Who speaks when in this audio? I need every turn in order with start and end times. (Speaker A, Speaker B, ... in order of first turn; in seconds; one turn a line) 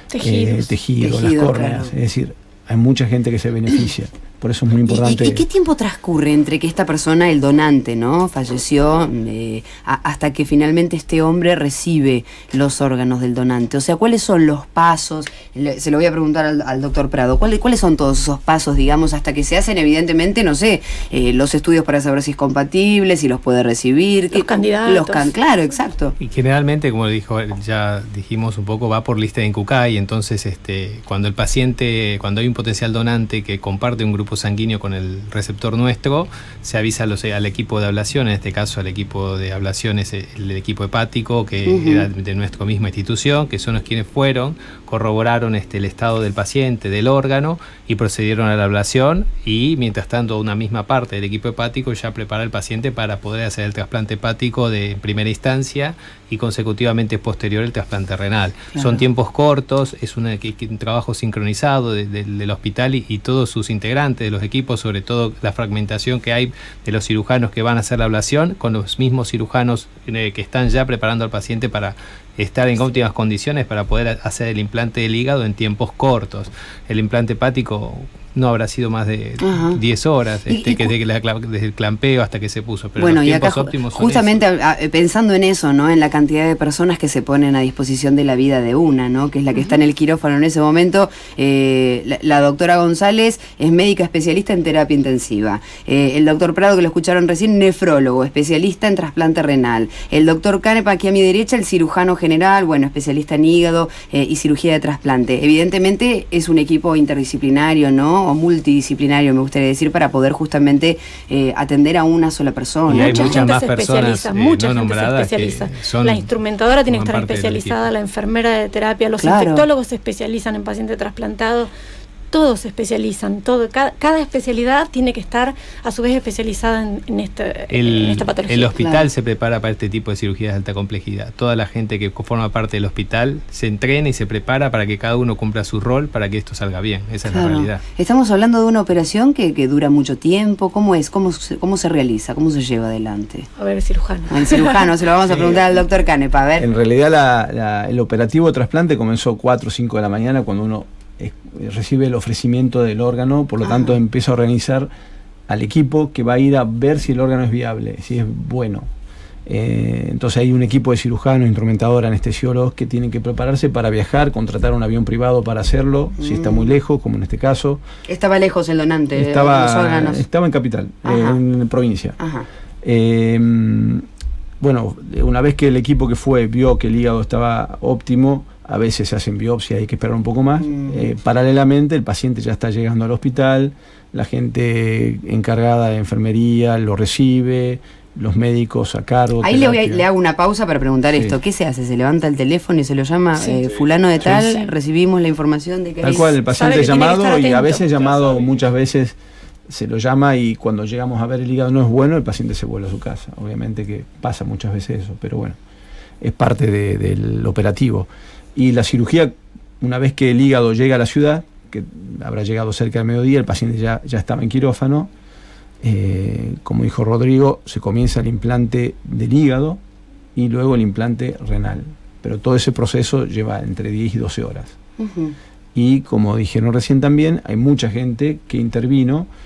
Speaker A: 0.1-0.7
Speaker B: 0.2-5.4
Speaker C: 1.0-1.9
Speaker C: 4.9-26.1
Speaker A: 24.3-25.3
Speaker D: 26.2-84.4
Speaker C: 41.7-42.1
Speaker C: 58.8-59.0
Speaker C: 79.4-79.8
Speaker C: 80.5-80.9
Speaker C: 83.0-113.4
Speaker D: 112.9-117.9
Speaker A: 112.9-121.7
Speaker C: 119.2-119.7
Speaker A: 122.3-128.7
Speaker D: 127.7-137.8
Speaker C: 128.8-129.1
Speaker C: 137.3-143.5
Speaker A: 143.6-144.9
Speaker C: 144.3-146.7
Speaker B: 146.6-154.9
Speaker C: 153.6-154.0
Speaker B: 155.5-158.9
Speaker B: 159.5-167.8
Speaker C: 166.2-166.8
Speaker C: 168.1-170.2
Speaker B: 169.2-172.2
Speaker C: 171.1-171.4
Speaker C: 172.2-172.5
Speaker B: 172.8-174.0
Speaker B: 174.6-190.0
Speaker C: 180.6-181.1
Speaker C: 189.4-196.3
Speaker A: 193.4-193.6
Speaker A: 194.2-194.7
Speaker B: 196.0-199.2
Speaker A: 196.5-197.8
Speaker B: 199.7-205.6
Speaker B: 206.2-215.1
Speaker B: 215.8-219.8
Speaker B: 220.3-224.8
Speaker C: 225.0-225.3
Speaker B: 225.8-229.3